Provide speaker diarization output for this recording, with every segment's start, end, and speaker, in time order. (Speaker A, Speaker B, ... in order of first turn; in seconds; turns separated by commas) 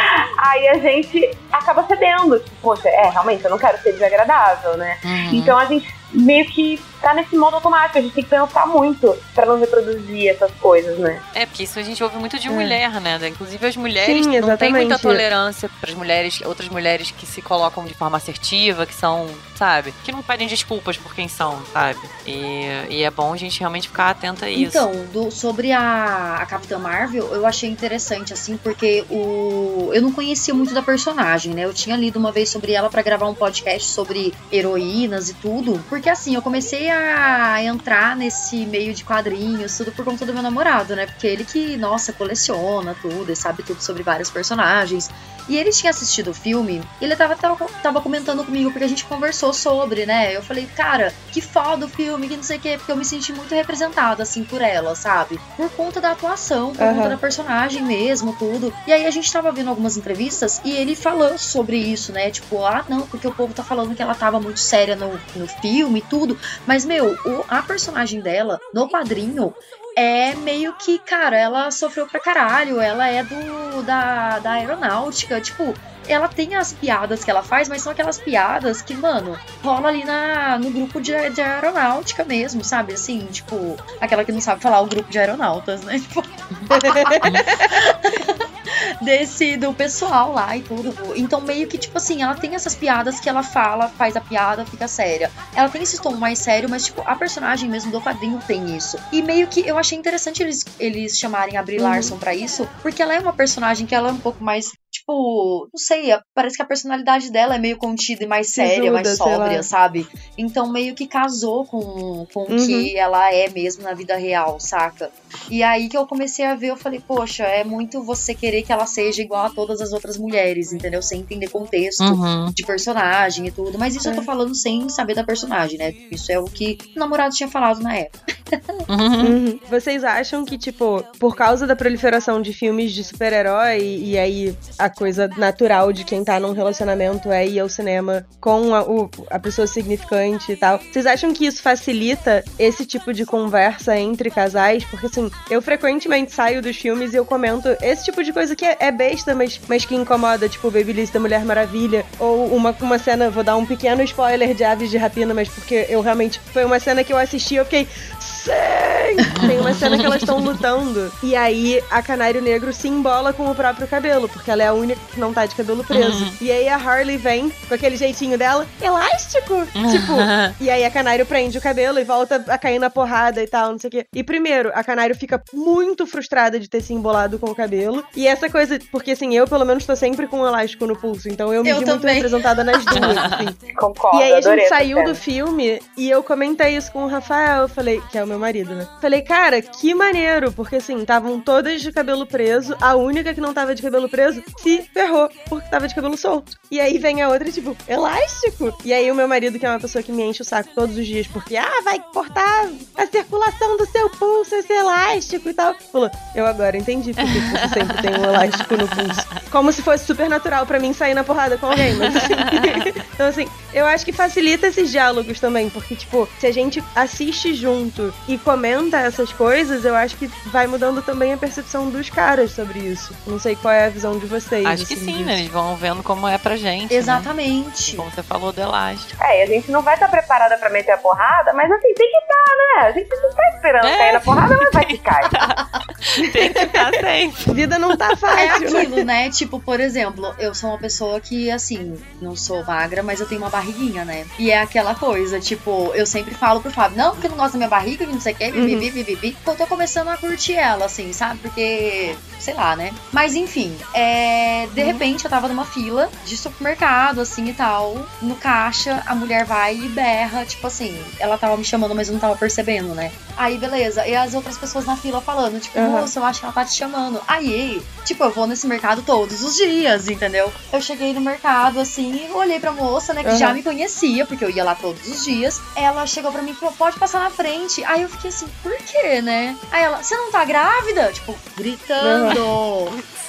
Speaker A: 0.4-11.2, Speaker B: 5.0-5.6, Speaker B: 11.3-24.9, Speaker C: 12.5-12.8, Speaker C: 14.0-15.2, Speaker D: 24.6-88.3, Speaker C: 56.8-57.2, Speaker C: 86.7-87.3, Speaker D: 89.0-128.8, Speaker C: 101.8-102.2, Speaker C: 108.5-109.7, Speaker C: 112.5-112.9, Speaker B: 122.0-122.5, Speaker B: 128.9-129.4, Speaker C: 129.2-183.6, Speaker B: 159.3-160.2, Speaker B: 165.9-166.4, Speaker B: 169.8-170.5, Speaker D: 181.6-183.2, Speaker B: 183.0-183.4, Speaker A: 183.7-185.2, Speaker C: 184.1-225.4, Speaker B: 207.3-209.3, Speaker B: 211.8-212.8, Speaker B: 224.7-227.3, Speaker D: 226.9-228.1, Speaker B: 227.8-229.1, Speaker A: 229.2-235.3, Speaker B: 233.8-237.7, Speaker C: 237.5-238.9, Speaker D: 238.3-283.0, Speaker C: 248.5-248.9, Speaker C: 265.8-266.1, Speaker C: 273.2-273.6, Speaker C: 282.0-282.4